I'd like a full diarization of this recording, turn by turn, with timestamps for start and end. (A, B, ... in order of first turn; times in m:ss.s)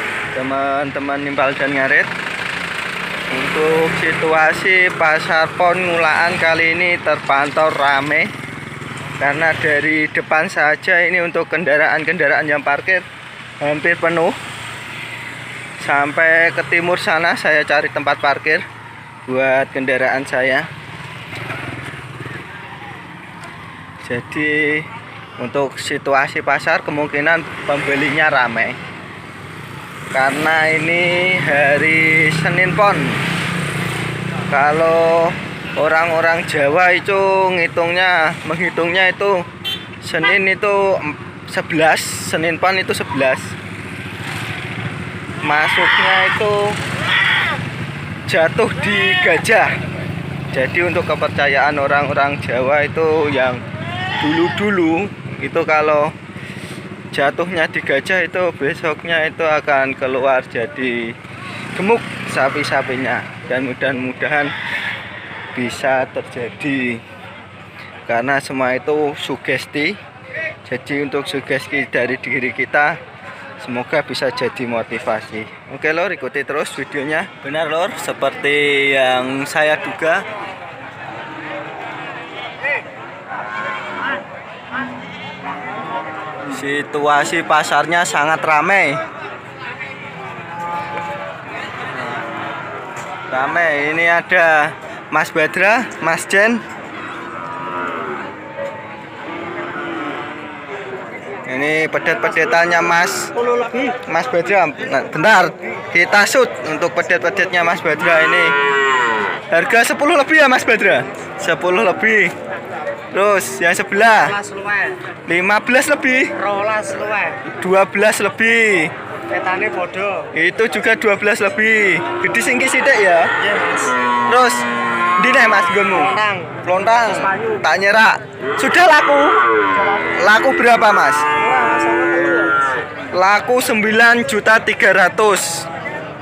0:00.3-0:02.1 A
0:03.3-0:08.3 A
0:09.2-0:13.0 A
0:13.6-0:14.3 A
0:15.8-0:18.6 A
0:19.3-0:20.7 A
0:24.0-0:28.8 A
0:30.1-0:33.2 A
0:34.5-0:39.4 A
0:40.0-0:43.5 A
0:45.4-0:46.8 A
0:48.3-0:49.7 A
0:50.5-0:53.6 A
0:54.2-0:56.1 A
0:57.1-1:01.1 A
1:01.7-1:04.5 A
1:05.5-1:07.0 A
1:08.1-1:10.0 A
1:10.6-1:12.9 A
1:13.6-1:20.2 A
1:26.5-1:29.0 A
1:33.3-1:36.6 A
1:41.4-1:43.3 A
1:43.3-1:43.9 B
1:44.0-1:48.5 A
1:49.5-1:52.3 A
1:53.1-1:54.3 A
1:54.0-1:55.0 B
1:55.3-1:56.3 A
1:56.4-1:57.4 B
1:57.6-1:58.9 A
1:59.3-2:00.3 B
2:00.3-2:03.3 A
2:03.4-2:03.9 B
2:04.3-2:04.6 A
2:05.2-2:09.4 A
2:05.9-2:07.6 B
2:10.2-2:11.2 A
2:11.4-2:12.6 B
2:13.1-2:15.6 A